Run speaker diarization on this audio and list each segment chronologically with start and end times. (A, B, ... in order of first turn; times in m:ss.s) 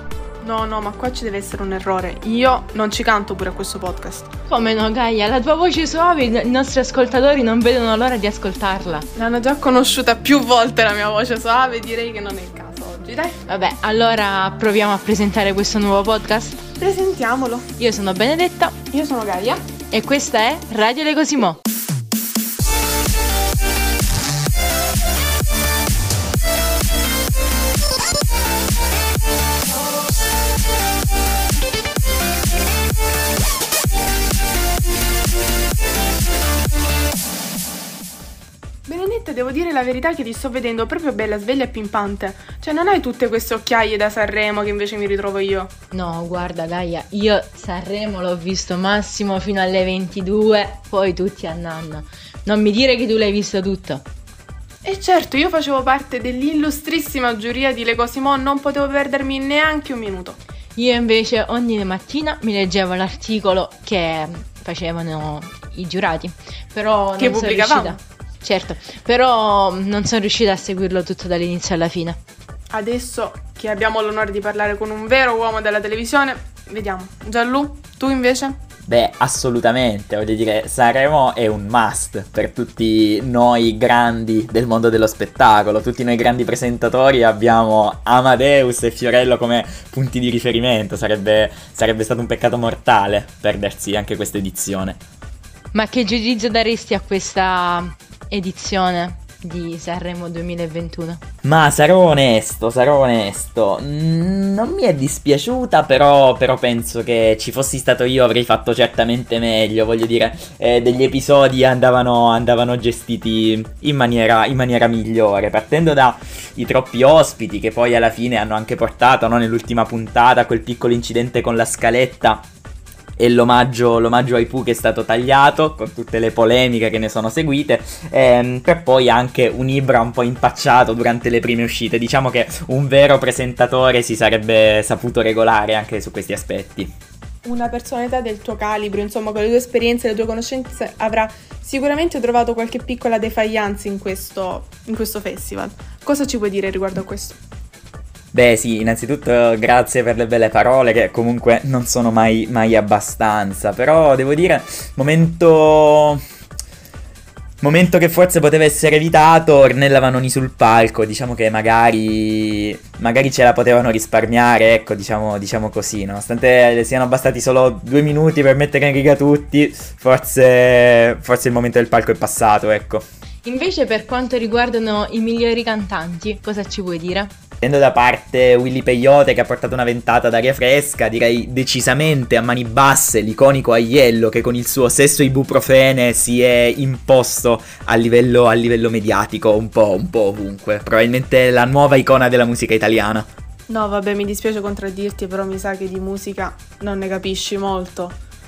0:00.4-0:04.3 A
0:04.5-0:09.1 B
0:09.2-0:13.4 A
0:13.5-0:16.6 B
0:16.8-0:17.7 A
0:17.8-0:18.8 B
0:18.9-0:19.7 A
0:19.9-0:21.6 B
0:38.9-0:45.7 A
0:45.9-0:54.0 B
0:54.8-1:00.4 A
1:00.8-1:12.2 B
1:07.2-1:08.0 A
1:12.7-1:18.6 A
1:18.9-1:35.0 C
1:35.7-1:41.2 B
1:41.4-2:02.5 C
2:03.2-2:16.9 C
2:17.4-2:27.4 A
2:28.3-2:36.2 C
2:37.6-2:53.0 C
2:53.4-2:57.3 B
2:57.6-3:13.3 C
3:13.7-3:18.2 A